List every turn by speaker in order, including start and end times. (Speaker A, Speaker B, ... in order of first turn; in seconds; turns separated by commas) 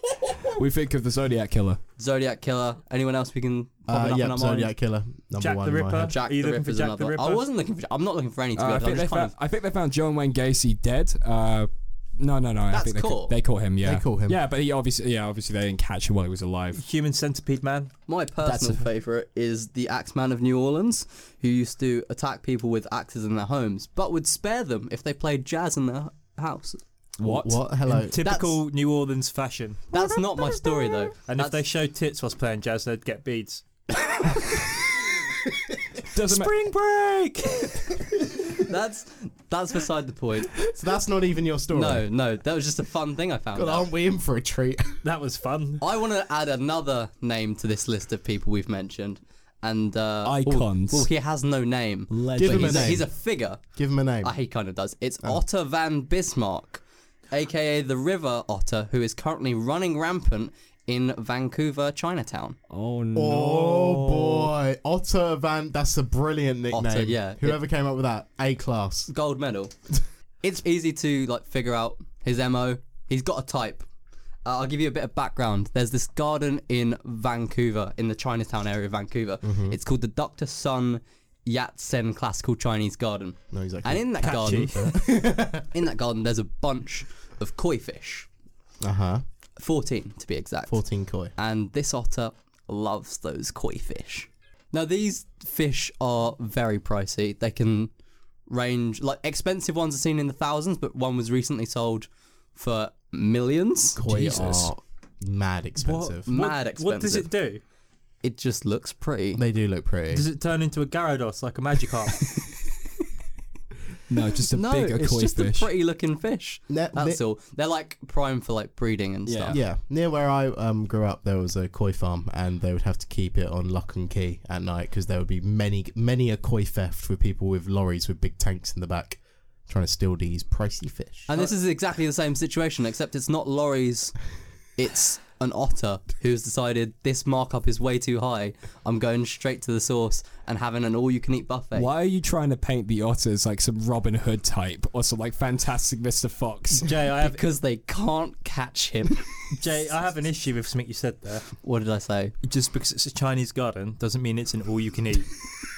Speaker A: 0.6-1.8, Speaker B: 2.0-4.7, Speaker C: 3.9-6.2, Speaker D: 5.4-7.4, Speaker B: 6.0-9.3, Speaker A: 8.6-16.8, Speaker B: 12.7-13.3, Speaker C: 13.8-14.4, Speaker D: 16.7-17.9, Speaker B: 18.1-26.8, Speaker A: 18.5-18.8, Speaker C: 27.2-28.1, Speaker A: 27.2-27.6, Speaker D: 27.9-29.8, Speaker B: 28.2-28.6, Speaker B: 29.9-31.6, Speaker D: 31.3-33.6, Speaker A: 36.1-37.3, Speaker D: 36.3-37.3, Speaker B: 38.6-40.5, Speaker C: 40.7-42.1, Speaker B: 41.7-43.9, Speaker C: 43.5-45.0, Speaker D: 45.0-45.8, Speaker B: 45.8-53.7, Speaker A: 50.2-51.1, Speaker A: 52.1-53.0, Speaker C: 52.4-53.1, Speaker C: 53.8-54.3, Speaker B: 54.2-62.6, Speaker A: 62.7-64.5, Speaker C: 63.1-69.1, Speaker B: 66.7-67.6, Speaker B: 69.1-69.7, Speaker B: 70.4-73.8, Speaker B: 74.5-85.0, Speaker C: 79.4-79.8, Speaker C: 83.5-85.7, Speaker D: 84.2-84.8, Speaker B: 85.7-88.3, Speaker C: 88.8-89.2, Speaker B: 89.6-90.8, Speaker C: 90.7-91.3, Speaker B: 91.4-97.9, Speaker B: 98.5-104.6, Speaker C: 104.0-106.3, Speaker D: 105.8-107.6, Speaker B: 106.3-107.3, Speaker B: 108.2-109.4, Speaker C: 109.4-110.3, Speaker D: 110.1-112.2, Speaker A: 114.1-115.7, Speaker B: 114.5-119.6, Speaker C: 116.7-117.2, Speaker A: 119.3-119.6, Speaker C: 119.5-131.3, Speaker B: 131.3-134.2, Speaker B: 134.8-141.9, Speaker A: 141.8-146.9, Speaker D: 146.7-147.4, Speaker B: 147.2-149.3, Speaker D: 149.5-151.5, Speaker B: 151.6-152.3, Speaker D: 152.4-155.3